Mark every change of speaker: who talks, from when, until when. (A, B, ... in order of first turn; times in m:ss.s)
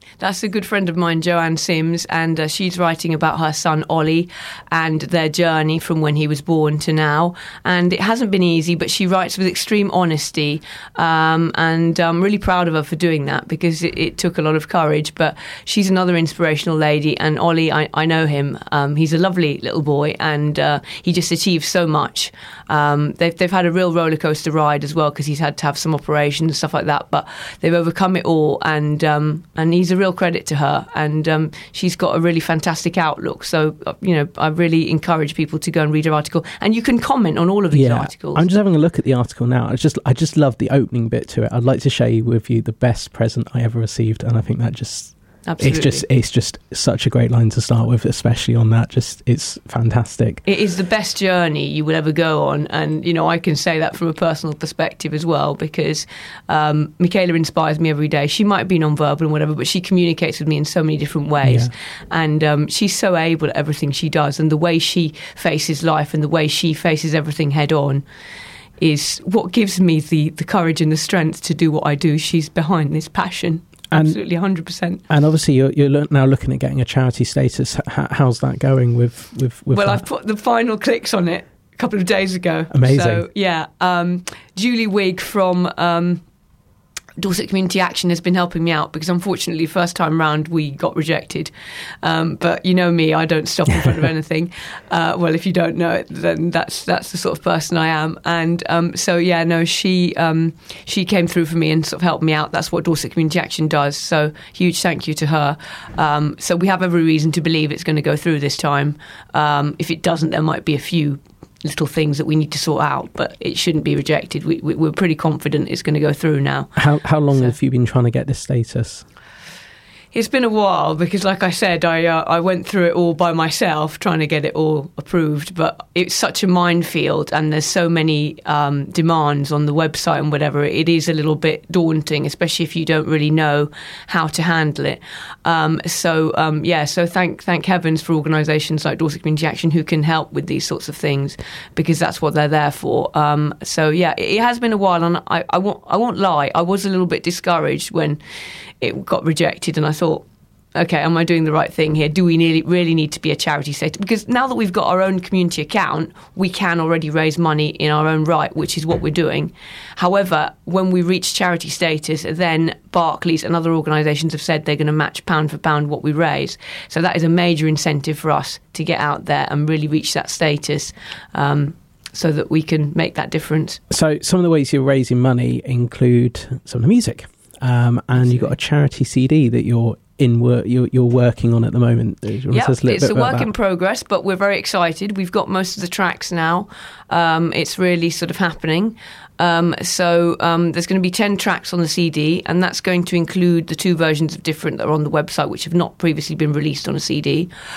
0:00.2-0:38.4 A
0:37.7-0:50.4 B
0:45.4-0:46.0 A
0:50.4-1:08.0 A
1:01.4-1:01.7 B
1:08.8-1:15.0 A
1:13.9-1:14.2 B
1:15.1-1:20.0 B
1:19.7-1:26.2 A
1:22.7-1:23.2 B
1:27.2-1:31.5 A
1:32.0-1:56.7 A
1:56.7-1:59.0 B
2:00.1-2:28.2 A
2:28.8-2:53.8 A
2:53.9-3:03.5 B
2:58.1-2:58.5 A
3:02.5-3:17.5 A